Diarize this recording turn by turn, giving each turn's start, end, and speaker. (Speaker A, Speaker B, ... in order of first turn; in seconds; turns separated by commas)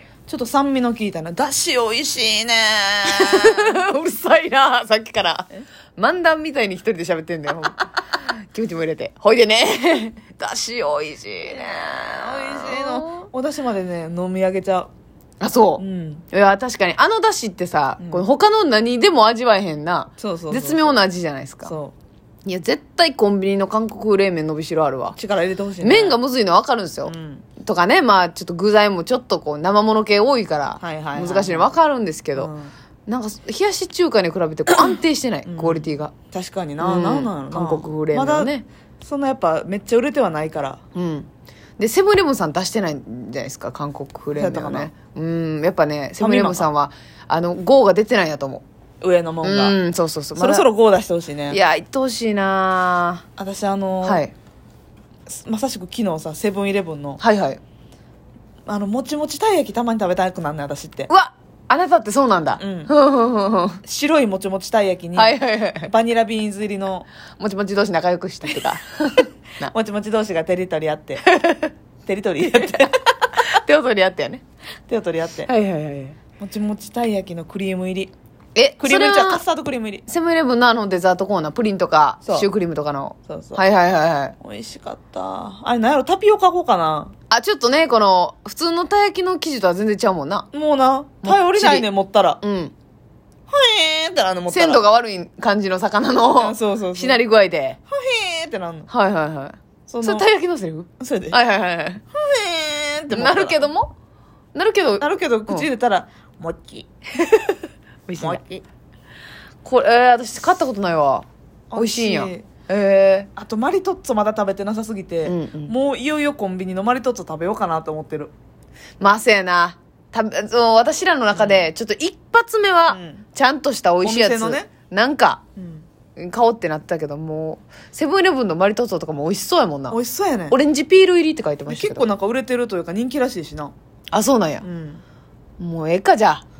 Speaker A: 0.3-3.8, Speaker B: 3.1-13.3, Speaker A: 12.1-14.9, Speaker B: 15.4-21.7, Speaker A: 15.8-16.2, Speaker A: 18.0-18.3, Speaker A: 20.2-21.0, Speaker A: 21.6-21.9, Speaker B: 22.4-25.2, Speaker A: 25.1-26.2, Speaker B: 25.8-32.5, Speaker A: 27.1-27.5, Speaker A: 30.8-31.7, Speaker A: 32.4-32.7, Speaker B: 33.0-36.1, Speaker A: 35.5-40.8, Speaker B: 36.8-38.6, Speaker B: 40.9-41.3, Speaker B: 41.8-48.6, Speaker A: 44.3-44.9, Speaker A: 46.2-46.7, Speaker A: 49.0-49.8, Speaker B: 49.4-50.6, Speaker A: 50.4-51.6, Speaker B: 51.5-53.2, Speaker A: 53.4-54.2, Speaker B: 54.0-54.3, Speaker A: 55.3-57.2, Speaker B: 57.2-57.6, Speaker A: 58.6-61.1, Speaker B: 61.1-63.8, Speaker A: 62.6-62.9, Speaker A: 63.8-67.1, Speaker B: 65.2-65.9, Speaker B: 67.4-69.7, Speaker A: 69.7-71.2, Speaker B: 71.2-71.7, Speaker A: 72.0-72.9, Speaker B: 72.8-74.4, Speaker A: 74.9-75.5, Speaker B: 75.5-76.2, Speaker A: 76.4-78.1, Speaker B: 78.5-79.4, Speaker A: 78.8-80.0, Speaker B: 80.1-84.3, Speaker A: 82.2-82.5, Speaker A: 83.3-83.6, Speaker A: 84.4-87.1, Speaker B: 87.3-90.5, Speaker A: 90.5-92.4, Speaker B: 91.2-91.8, Speaker B: 92.4-92.7, Speaker A: 93.5-94.8, Speaker B: 94.5-97.8, Speaker A: 96.3-97.2, Speaker A: 97.9-98.9, Speaker B: 98.9-102.0, Speaker A: 99.9-100.3, Speaker A: 101.0-101.4, Speaker A: 102.1-103.6, Speaker B: 103.1-103.9, Speaker B: 104.5-105.7, Speaker A: 105.0-106.9, Speaker B: 108.1-108.4, Speaker A: 108.2-108.6, Speaker B: 109.6-111.2, Speaker A: 111.7-112.5, Speaker B: 111.8-113.3, Speaker A: 113.3-118.3, Speaker B: 115.2-115.7, Speaker B: 119.0-125.4, Speaker A: 121.3-121.7, Speaker A: 122.9-123.2, Speaker A: 124.0-124.7, Speaker A: 125.6-125.8, Speaker B: 126.2-130.0, Speaker A: 129.9-130.6, Speaker B: 130.5-132.1, Speaker A: 131.7-133.7, Speaker B: 134.1-134.6, Speaker A: 134.6-135.0, Speaker B: 135.6-136.4